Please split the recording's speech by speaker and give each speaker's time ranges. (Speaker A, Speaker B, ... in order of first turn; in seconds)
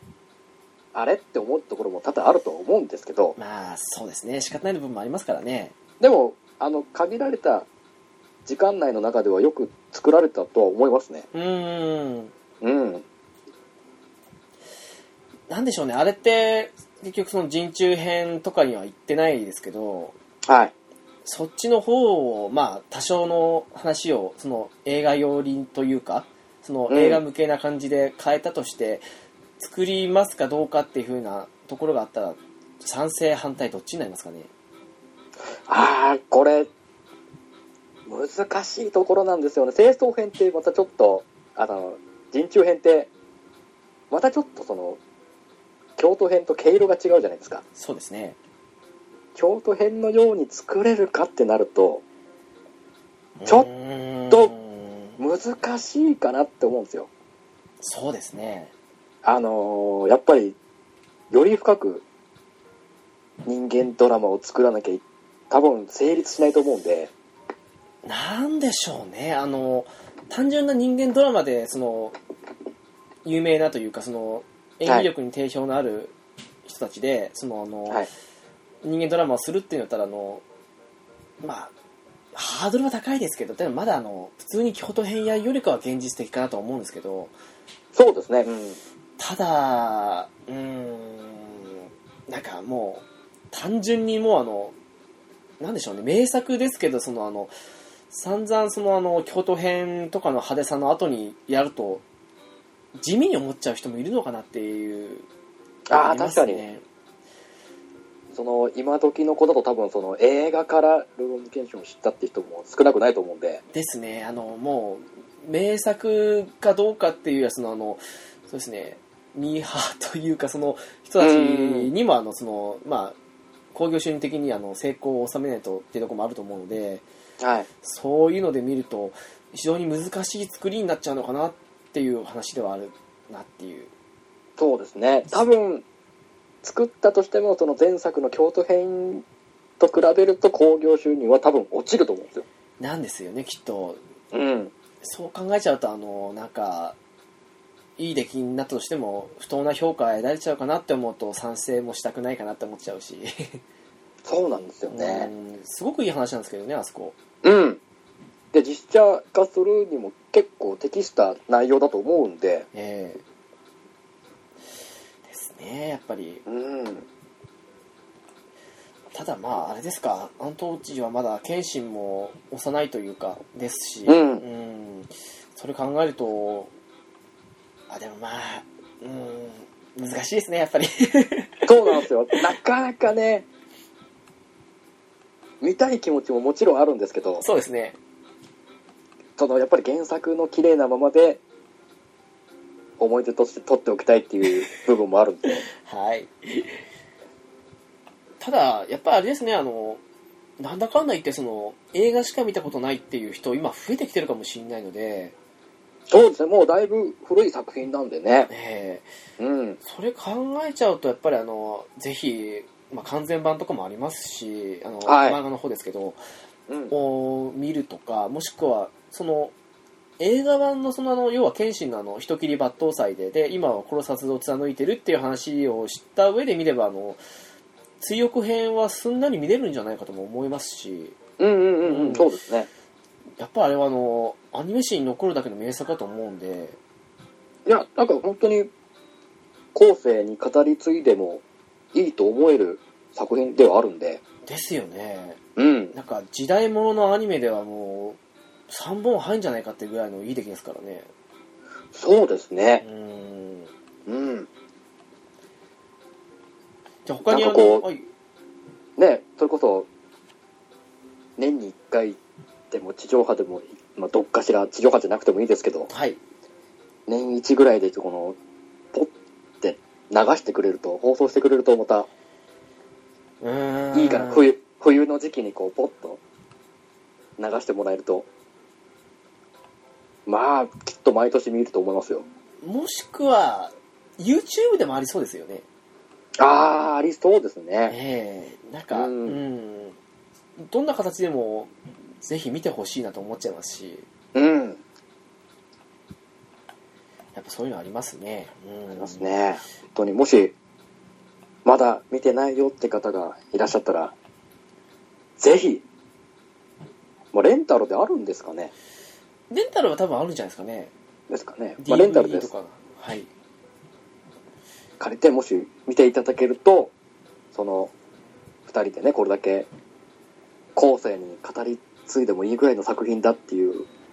Speaker A: 0.9-3.4, 6.0-7.7, 8.5-11.3, 12.6-13.1, 20.5-20.7, 26.9-27.2, 35.7-36.7, 38.1-43.1, 44.1-45.0, 46.0-47.6, 49.4-52.0, 55.2-57.1, 59.2-60.6, 61.3-62.0, 63.5-67.1, 87.9-88.8, 105.9-106.6, 108.3-113.6, 121.2-121.9, 127.4-127.7, 134.6-135.9, 136.6-139.2, 139.8-142.5, 144.3-144.7, 154.2-155.3, 157.4-157.8, 158.5-162.7, 166.5-167.1, 174.1-174.4, 181.7-183.5, 185.6-187.4, 189.4-191.4, 193.0-195.7, 206.1-208.5, 209.4-209.8, 215.1-215.4, 216.7-216.9, 231.4-232.7, 237.7-238.7, 239.7-244.2, 245.6-245.9, 251.9-252.8, 254.1-254.5, 257.3-257.9, 259.0-259.9, 261.4-262.2, 262.7-265.9, 267.1-268.4, 268.9-272.1, 273.9-276.2, 277.4-278.3, 280.3-282.3, 286.4-288.0, 288.9-289.4, 294.4-294.8, 298.9-300.6, 301.6-304.1, 305.4-305.9, 307.3-308.7, 311.3-312.5, 315.0-316.9, 317.5-317.9, 318.7-319.7, 320.8-323.9
Speaker B: 3.4-5.7, 11.3-12.3, 15.5-20.1, 21.2-29.1, 29.6-34.5, 47.8-48.4, 53.4-55.2, 57.8-58.7, 68.0-72.2, 73.2-76.1, 76.7-78.1, 78.8-80.4, 81.4-81.7, 82.3-87.3, 89.2-94.8, 95.6-97.5, 98.1-102.0, 103.0-105.3, 105.9-106.8, 113.7-123.2, 123.7-127.0, 127.8-133.9, 142.8-144.0, 145.0-147.0, 148.0-153.6, 154.9-157.2, 162.7-163.2, 165.2-166.4, 169.1-176.7, 177.9-182.1, 187.4-188.0, 195.7-196.7, 198.4-200.0, 200.6-205.3, 208.5-209.1, 209.8-216.2, 216.9-219.5, 220.2-227.2, 228.0-231.2, 231.8-232.3, 233.4-236.8, 244.4-245.4, 245.9-251.1, 252.8-253.7, 257.1-258.1, 265.9-266.2, 273.4-274.5, 282.6-285.6, 287.9-290.0, 290.6-294.1, 297.4-299.2, 309.5-310.9, 311.8-313.3